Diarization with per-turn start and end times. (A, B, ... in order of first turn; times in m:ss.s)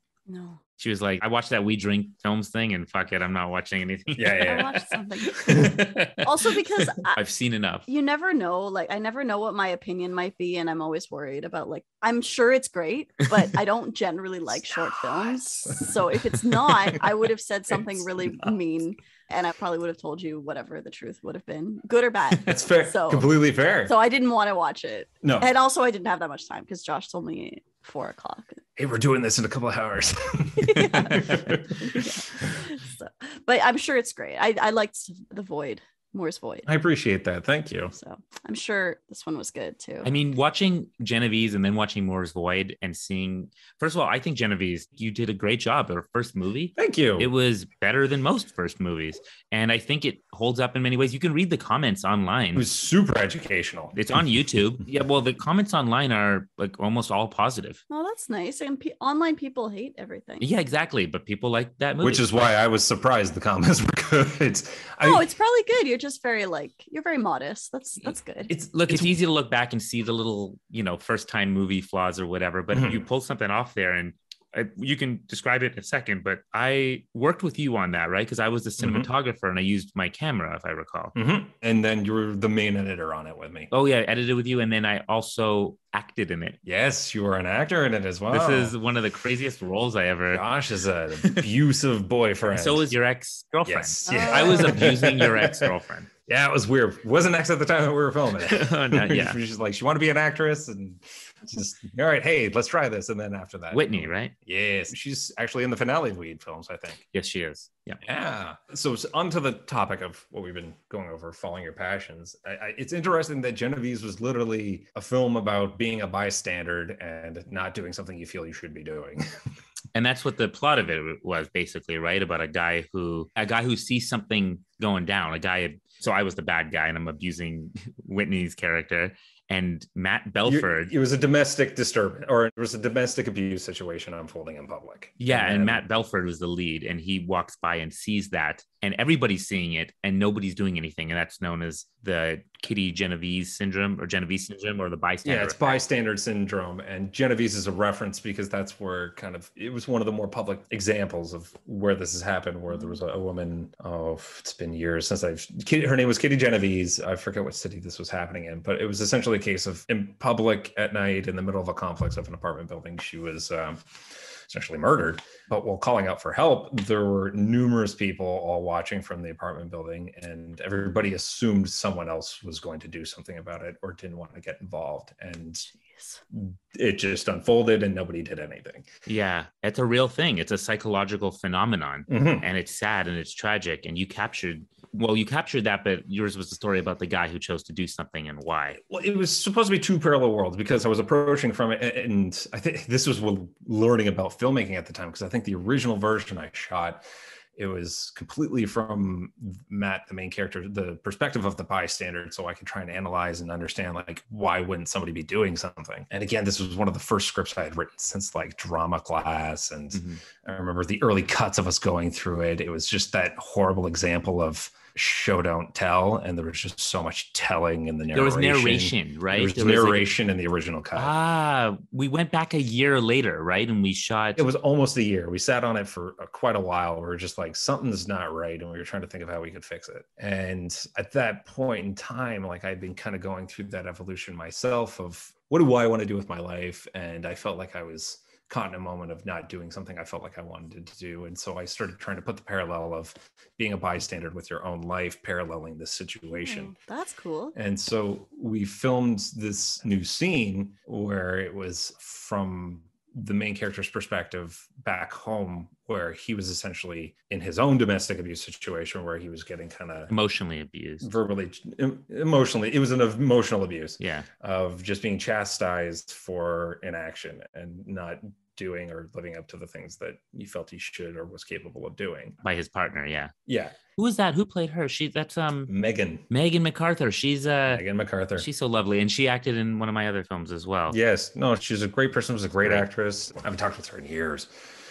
0:00.3-0:00.6 A
0:00.8-0:04.8 B
0:04.2-0:06.5 C
0:04.4-0:07.2 A
0:07.1-0:07.8 B
0:07.9-0:28.6 A
0:14.7-0:17.0 C
0:17.7-0:18.5 C
0:22.4-0:23.9 C
0:25.2-0:25.5 C
0:28.8-0:32.6 C
0:30.6-0:36.7 A
0:36.6-0:37.9 C
0:37.9-0:40.1 A
0:40.0-0:52.6 B
0:46.8-0:47.3 C
0:52.5-0:54.0 C
0:53.9-0:57.8 B
0:57.9-1:00.5 A
1:00.4-1:02.3 B
1:02.0-1:05.2 C
1:05.0-1:08.5 A
1:08.5-1:09.1 C
1:08.7-1:21.1 B
1:12.7-1:13.0 C
1:18.8-1:19.1 C
1:21.1-1:23.7 C
1:23.7-1:26.6 B
1:26.6-1:28.7 C
1:28.3-1:30.4 B
1:30.3-1:32.9 C
1:32.5-1:36.1 B
1:33.7-1:35.7 C
1:34.0-1:34.9 A
1:36.2-1:47.0 C
1:38.4-1:39.4 B
1:43.7-1:44.3 B
1:47.1-1:48.0 B
1:48.0-1:59.2 C
1:59.9-2:10.9 B
2:10.4-2:15.8 C
2:15.2-2:25.8 B
2:25.2-2:43.9 C
2:44.5-2:55.7 C
2:55.9-2:56.2 A
2:56.3-2:58.9 C
2:59.0-3:08.8 B
3:02.1-3:02.4 C
3:08.8-3:17.0 C
3:17.6-3:41.1 C
3:29.9-3:30.2 B
3:38.1-3:40.1 B
3:41.0-3:44.4 B
3:44.4-4:06.7 C
4:06.4-4:07.5 A
4:07.5-4:20.1 C
4:20.1-4:21.1 B
4:21.0-4:32.4 C
4:24.0-4:24.3 B
4:32.4-4:33.3 B
4:33.5-4:33.8 C
4:33.9-4:35.7 B
4:35.7-4:36.2 C
4:36.3-4:37.8 B
4:37.7-4:38.5 C
4:38.4-4:41.0 B
4:40.9-4:44.5 C